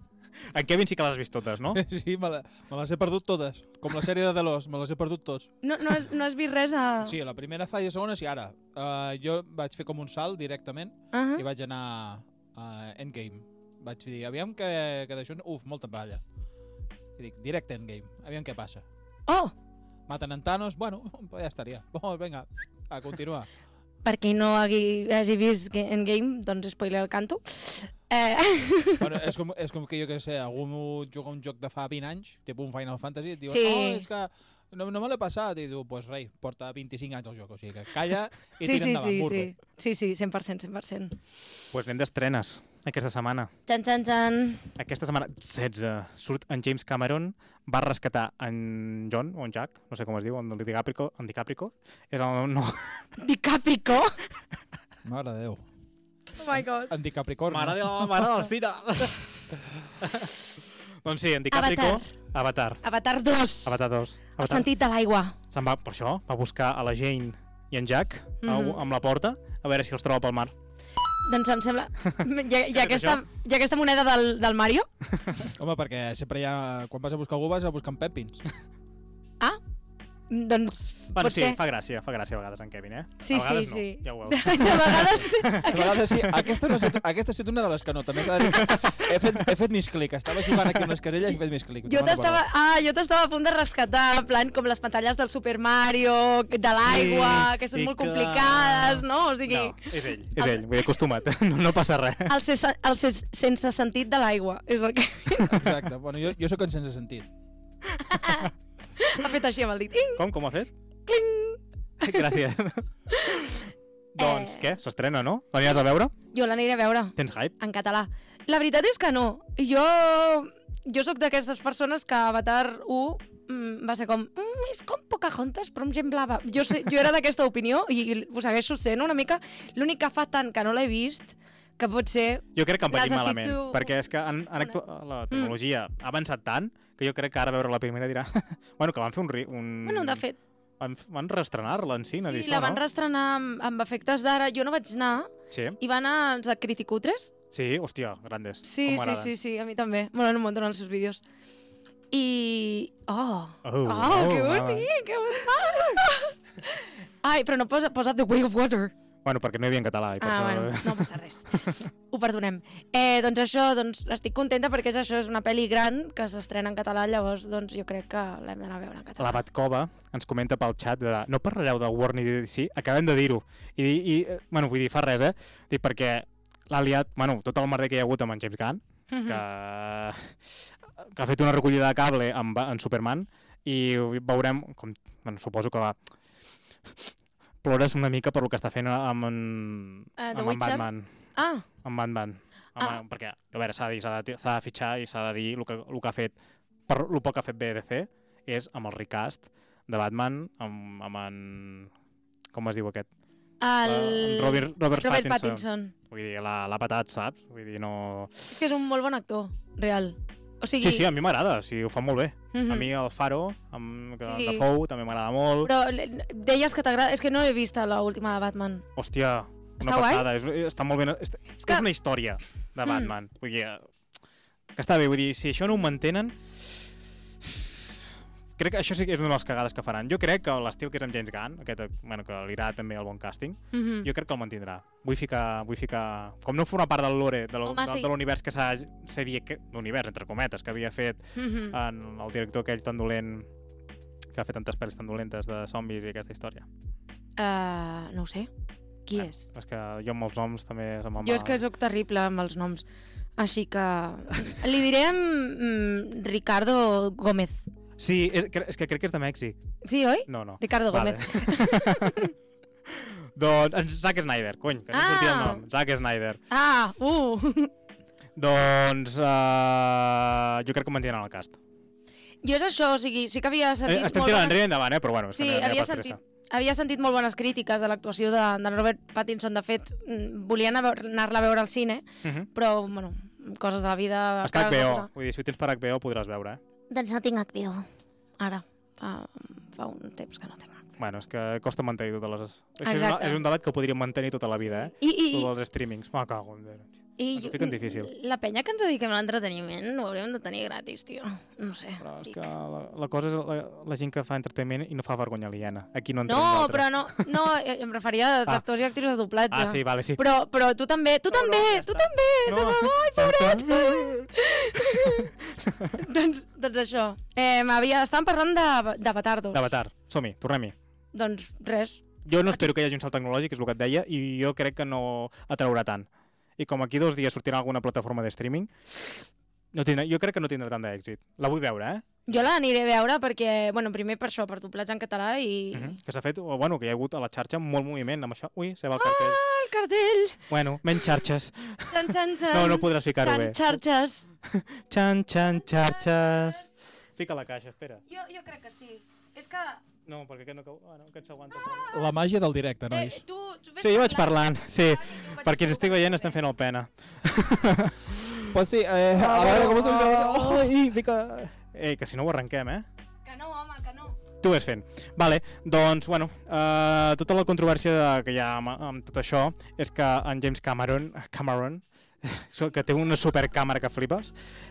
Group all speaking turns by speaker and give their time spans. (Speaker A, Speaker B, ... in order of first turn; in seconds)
Speaker A: 0.5-1.8, 41.7-43.5, 44.8-53.1, 57.5-59.2, 60.0-60.5, 61.0-62.8, 63.6-64.7, 65.5-70.5, 72.7-73.2, 81.1-86.9, 88.4-89.1, 96.8-102.3, 110.2-110.7, 112.0-113.5, 114.1-116.1, 117.2-117.5, 132.5-140.2, 140.8-142.8, 145.5-145.8, 147.5-149.3, 153.6-154.9, 159.2-161.1, 169.2-180.3, 181.1-186.0, 187.6-191.1, 191.8-196.3, 196.9-201.9, 202.5-203.1, 203.8-208.5, 210.8-215.7, 218.9-223.9, 224.8-226.6, 227.4-227.8, 228.6-243.5, 244.3-246.7, 249.2-251.6, 258.0-259.6, 260.3-262.3, 262.9-266.4, 268.4-271.6, 273.9-276.2, 282.2-282.5, 284.4-286.6, 291.0-298.1, 302.0-307.2, 309.5-310.2, 311.3-314.3, 315.7-315.9, 319.5-320.7, 322.2-326.1, 326.6-332.4, 335.7-339.4, 340.5-343.8, 344.5-348.0, 350.1-351.9, 353.8-358.6, 359.1-362.9, 364.4-374.3
Speaker B: 1.7-5.5, 7.0-16.2, 17.2-18.8, 20.1-23.5, 29.0-39.5, 55.0-55.6, 56.9-58.1, 75.5-78.4, 85.6-92.4, 105.5-107.3, 351.9-353.2, 358.5-360.7
Speaker C: 5.6-7.2, 11.1-11.4, 19.3-19.5, 24.0-29.1, 33.5-34.0, 38.6-41.1, 43.7-44.6, 53.2-54.2, 56.4-56.9, 61.5-62.0, 62.8-63.8, 64.4-65.3, 68.4-68.8, 71.2-74.9, 80.3-81.6, 83.2-85.9, 91.8-100.9, 102.3-105.7, 108.0-110.2, 111.1-112.3, 113.1-113.6, 114.2-114.6, 116.3-133.9, 139.8-140.4, 142.2-147.3, 148.6-151.2, 152.1-158.9, 160.2-169.4, 179.1-179.4, 190.2-191.6, 203.6-205.9, 208.5-211.1, 212.5-212.9, 214.2-214.6, 215.6-218.8, 219.8-220.3, 221.6-221.9, 222.8-223.1, 233.7-234.1, 237.6-238.1, 241.3-241.8, 247.4-248.5, 249.1-249.4, 251.2-252.8, 253.4-257.7, 259.8-262.3, 264.9-265.6, 266.5-267.7, 272.4-274.6, 275.3-285.1, 286.9-287.9, 288.4-290.9, 292.8-293.4, 294.8-295.5, 297.2-302.5, 306.2-315.4, 315.9-319.7, 321.1-322.6, 332.2-336.0, 339.0-340.4, 341.0-341.2, 341.9-344.3, 345.6-346.6, 348.1-349.8, 351.5-352.0, 352.9-356.4, 363.2-364.1